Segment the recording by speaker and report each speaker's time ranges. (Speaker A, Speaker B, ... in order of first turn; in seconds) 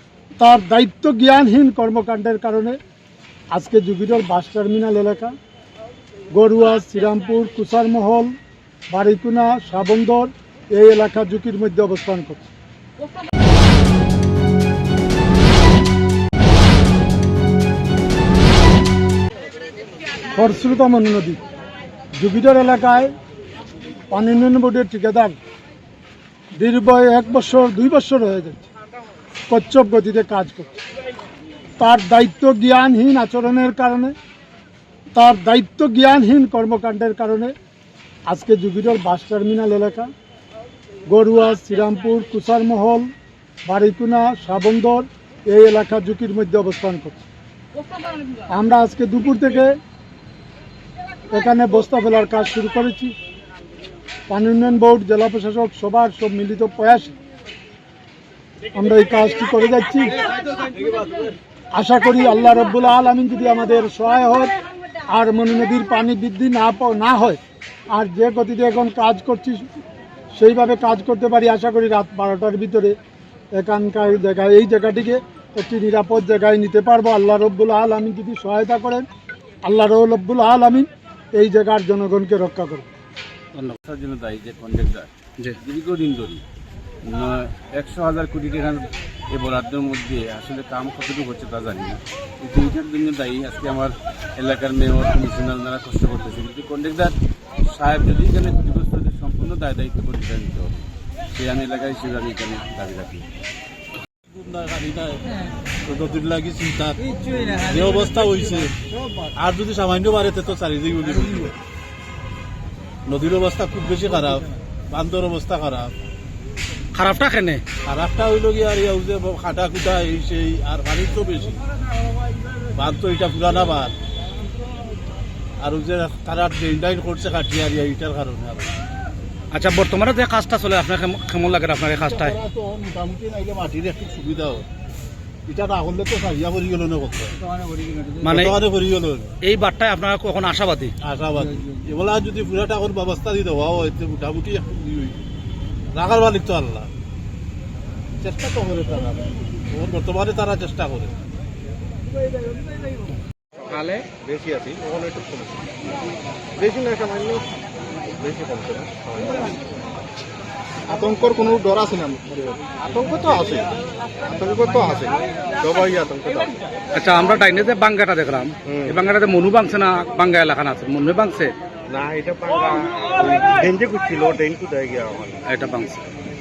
Speaker A: 0.4-2.8, 3.5-5.3, 6.3-8.3, 8.9-12.4, 20.3-21.4, 22.2-23.1, 24.1-25.4, 26.6-28.7, 29.5-30.8, 31.8-34.1, 35.1-37.5, 38.3-40.1, 41.1-43.1, 43.6-47.2, 48.5-49.8, 51.3-53.1, 54.3-57.1, 58.7-60.2, 61.7-64.6, 65.1-69.7, 70.3-73.0, 73.5-79.1, 79.6-82.9
Speaker B: 83.8-86.4, 87.0-103.3
Speaker C: 104.2-111.6, 113.1-115.9, 117.8-121.6, 122.7-123.9, 125.6-128.7, 132.0-134.7, 135.5-139.3, 141.0-145.2, 145.9-146.9, 148.2-151.1
Speaker D: 116.9-117.6, 129.5-132.4, 138.2-138.6, 139.4-140.9, 166.9-171.5, 175.5-176.1
Speaker E: 153.7-155.7, 156.6-157.5, 158.2-159.7, 160.9-163.7, 164.2-166.6, 168.7-169.0, 171.9-175.4